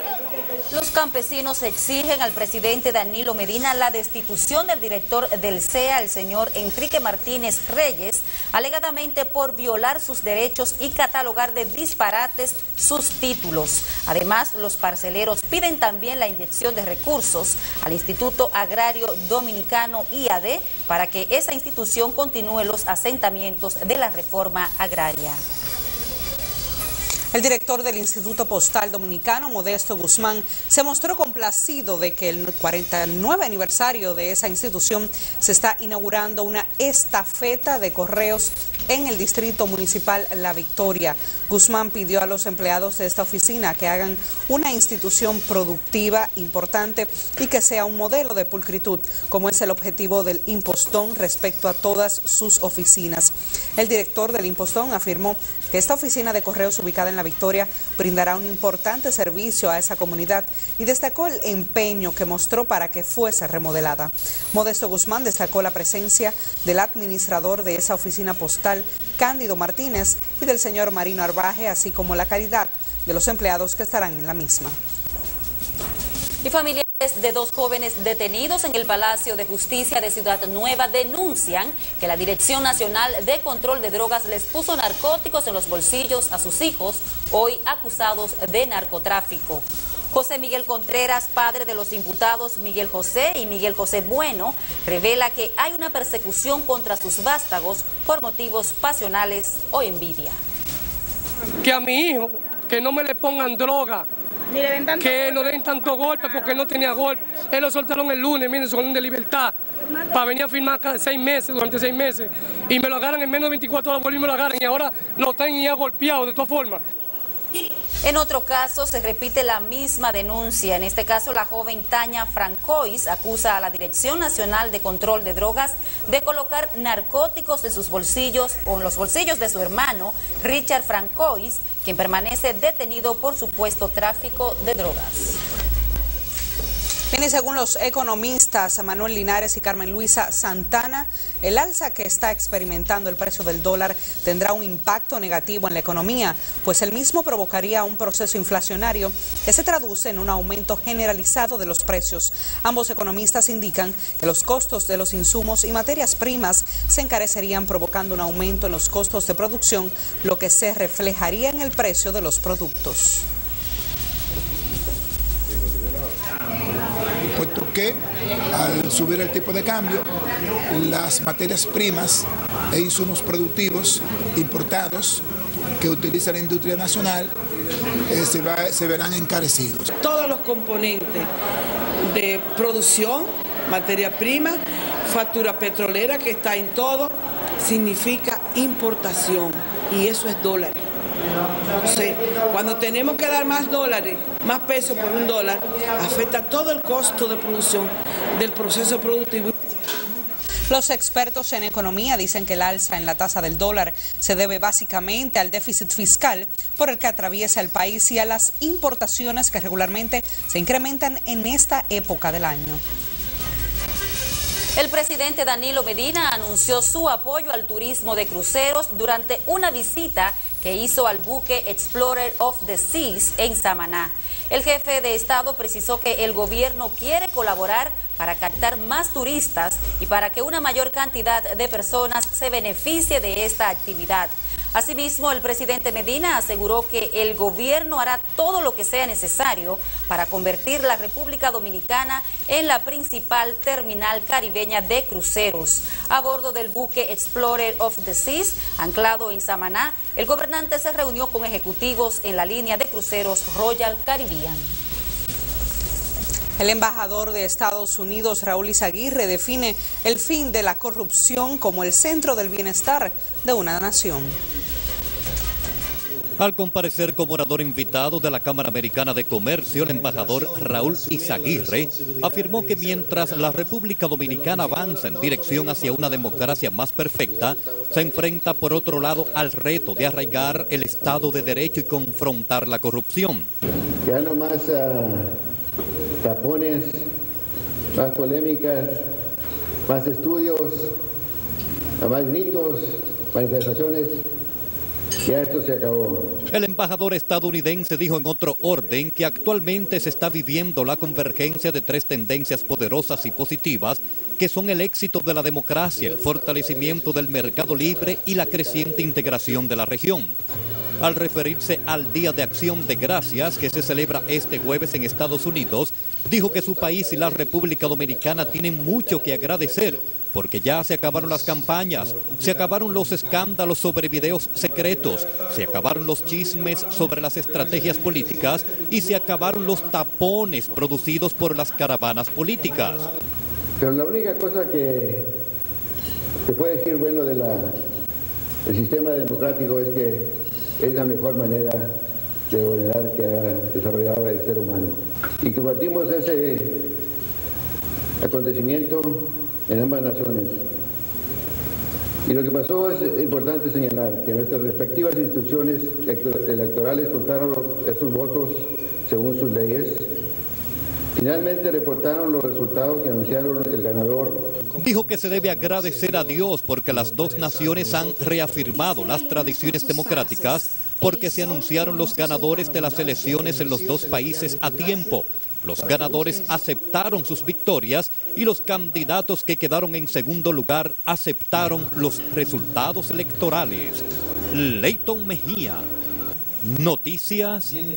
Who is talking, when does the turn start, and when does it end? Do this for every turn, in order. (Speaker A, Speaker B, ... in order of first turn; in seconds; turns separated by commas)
Speaker A: 0.7-25.4, Speaker B: 27.3-74.8, Speaker A: 76.4-100.4, Speaker C: 101.6-104.0, Speaker C: 104.8-109.5, Speaker C: 110.1-116.8, Speaker A: 118.0-135.4, Speaker B: 137.1-163.2, Speaker D: 167.3-168.0, Speaker D: 168.5-170.1, Speaker D: 170.7-175.2, Speaker D: 175.8-177.3, Speaker D: 178.1-179.9, Speaker E: 180.0-181.3, Speaker E: 182.1-190.8, Speaker E: 191.8-199.5, Speaker B: 200.7-212.8, Speaker A: 214.7-254.7, Speaker B: 256.6-264.4, Speaker F: 266.4-283.5, Speaker G: 284.0-285.3, Speaker G: 286.2-287.0, Speaker G: 287.9-289.0, Speaker G: 289.9-290.9, Speaker G: 292.0-294.2, Speaker G: 295.2-296.3, Speaker F: 296.5-310.3, Speaker F: 311.0-333.1, Speaker G: 333.8-335.3, Speaker G: 336.4-337.7, Speaker G: 338.6-341.9, Speaker G: 342.5-346.9, Speaker G: 348.2-350.6, Speaker G: 352.2-360.1, Speaker G: 361.1-364.5, Speaker F: 364.8-385.9, Speaker F: 386.6-387.7